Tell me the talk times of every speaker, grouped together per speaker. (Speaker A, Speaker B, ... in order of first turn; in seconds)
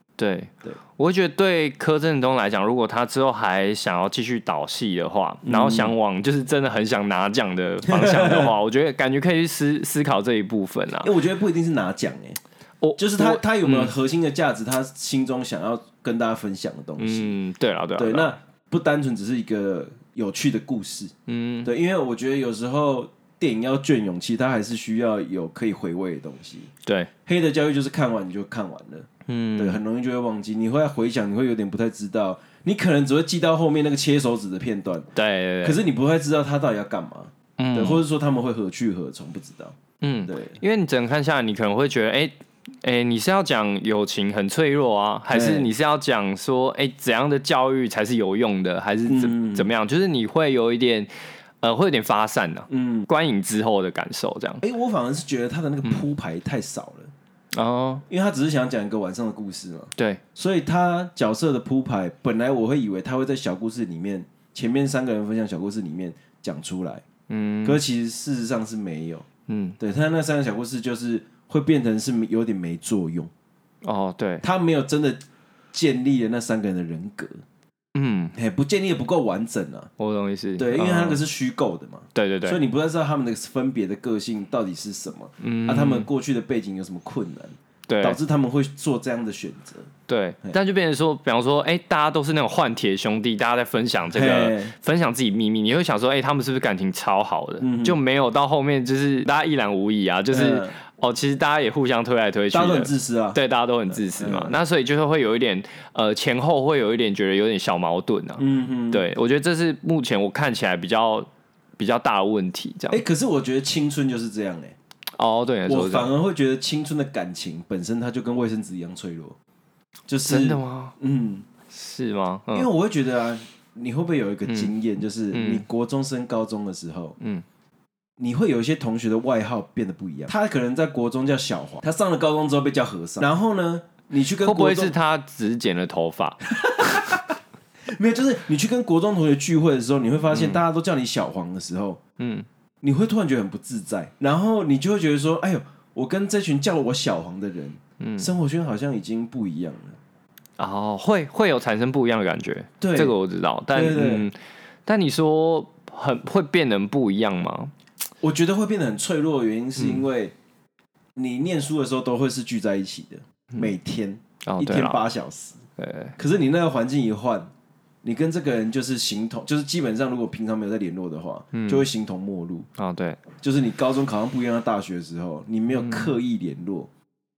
Speaker A: 0.2-11.1, 12.8-13.9, 17.0-18.4, 21.3-21.7, 29.3-29.8, 35.1-35.8, 37.6-38.0, 40.0-42.3, 42.8-51.1, 51.6-54.6, 57.5-58.0, 67.3-67.8, 69.5-69.8, 73.8-74.4, 77.9-78.3, 80.0-81.2, 82.1-82.6, 85.4-86.1, 87.9-88.2, 90.1-113.0, 115.2-116.1, 120.3-120.9, 121.7-122.7, 124.5-124.7, 125.3-125.6, 134.4-137.2, 140.3-140.6, 142.2-142.4, 148.0-148.3, 150.6-157.7, 159.8-160.1, 164.4-165.1, 165.8-166.2, 171.5-171.8, 172.8-173.2, 175.7-176.1
Speaker B: 5.4-5.9, 7.9-8.5, 11.0-12.4, 13.0-17.4, 17.9-21.1, 21.6-26.7, 27.2-35.1, 35.6-40.6, 45.3-45.7, 49.0-49.7, 52.7-53.1, 54.6-57.1, 58.1-67.0, 67.6-69.2, 69.8-73.3, 74.4-77.4, 78.3-79.9, 80.6-89.9, 94.1-94.7, 97.6-98.0, 100.3-100.7, 102.5-103.4, 103.9-104.5, 108.4-109.0, 112.9-114.8, 115.7-119.3, 120.1-121.5, 122.5-127.1, 128.2-134.9, 136.6-137.2, 137.9-142.0, 142.8-150.0, 152.8-153.1, 153.7-154.3, 158.2-160.3, 161.2-165.6, 166.2-167.5, 168.0-172.7, 173.4-176.9